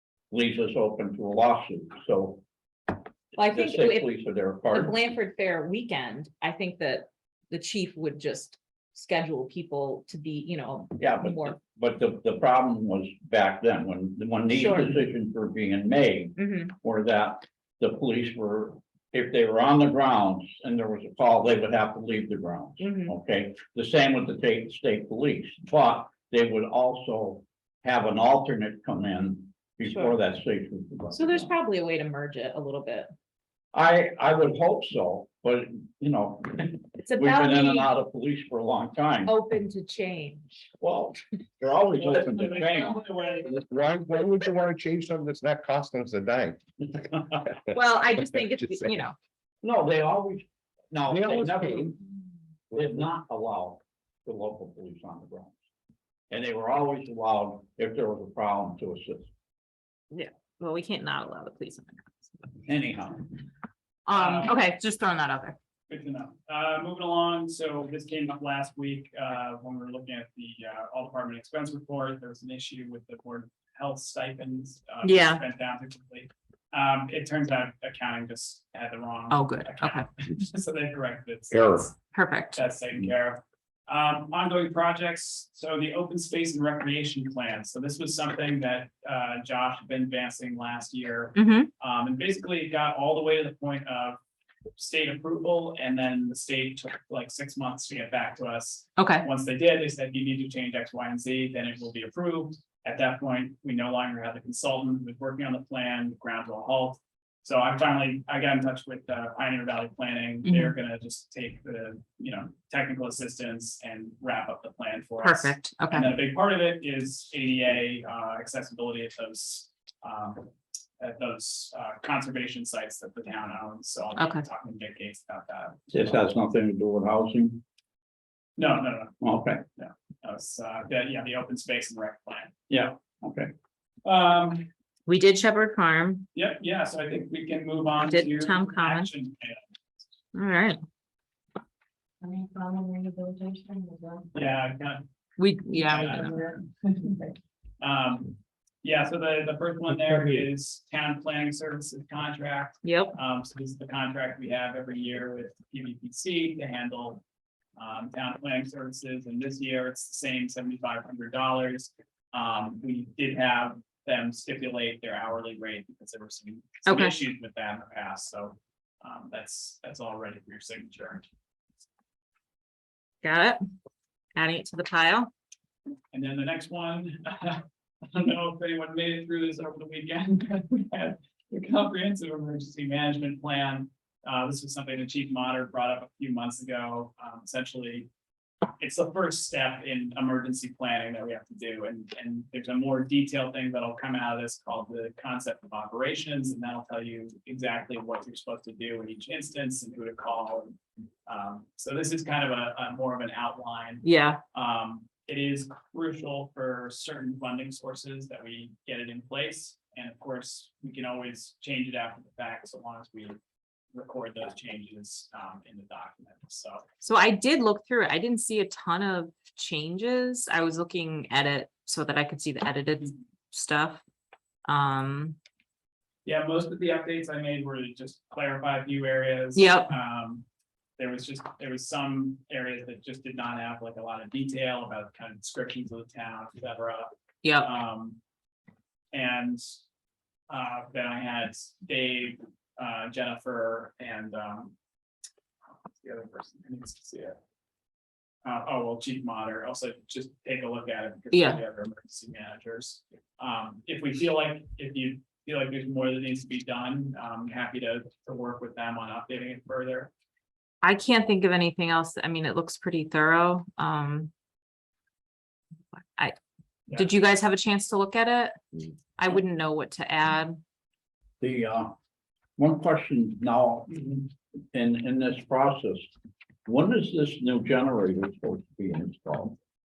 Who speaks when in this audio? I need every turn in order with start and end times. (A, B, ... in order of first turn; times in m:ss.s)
0:00.3-0:02.4 A
0:03.4-0:04.1 B
0:03.4-0:04.9 A
0:04.7-0:11.6 B
0:11.0-0:31.5 A
0:14.5-0:15.0 B
0:16.4-0:16.7 B
0:22.8-0:23.1 B
0:31.1-0:33.1 B
0:33.7-0:39.3 A
0:37.0-0:37.9 B
0:39.2-0:40.7 B
0:40.8-0:43.0 A
0:42.0-0:43.6 C
0:42.1-0:42.6 D
0:43.4-0:46.6 D
0:47.1-0:47.4 A
0:47.7-0:49.2 B
0:49.6-0:52.0 A
0:51.1-0:51.9 D
0:52.7-0:55.6 A
0:56.3-0:59.3 A
1:00.1-1:02.6 B
1:02.6-1:03.4 A
1:04.1-1:05.6 B
1:04.1-1:04.6 C
1:05.9-1:22.0 C
1:15.0-1:15.4 B
1:19.3-1:20.1 B
1:21.5-1:21.9 A
1:22.1-1:22.6 B
1:22.5-1:34.2 C
1:31.4-1:31.7 B
1:34.8-2:06.2 C
1:39.0-1:39.3 B
1:50.4-1:50.7 B
1:55.2-1:56.1 B
2:04.2-2:04.4 B
2:05.9-2:07.6 A
2:08.6-2:12.5 C
2:09.2-2:09.6 A
2:12.7-2:13.5 A
2:14.0-2:14.7 C
2:15.1-2:16.3 B
2:16.3-2:19.6 C
2:18.0-2:19.1 B
2:20.3-2:20.8 B
2:22.2-2:24.3 B
2:24.3-2:25.0 C
2:25.4-2:26.6 B
2:25.7-2:37.2 C
2:32.8-2:33.1 B
2:37.8-2:51.2 C
2:46.8-2:47.2 B
2:53.2-2:53.6 B
2:54.3-2:55.3 B
2:56.1-3:08.1 C
3:08.8-3:33.4 C
3:24.0-3:24.4 B
3:33.9-3:36.8 C
3:37.0-3:44.0 B
3:44.6-3:45.4 B
3:46.2-3:50.4 C
3:49.5-3:49.9 B
3:51.0-3:58.2 C
3:57.4-3:57.7 B
3:59.1-3:59.6 C
4:00.5-4:04.7 C
4:05.7-4:07.4 C
4:08.4-4:20.1 C
4:11.3-4:11.6 B
4:20.8-4:24.3 B
4:27.0-4:28.6 B
4:29.2-4:30.6 B
4:31.4-4:31.9 A
4:32.6-4:36.1 A
4:36.6-4:39.6 A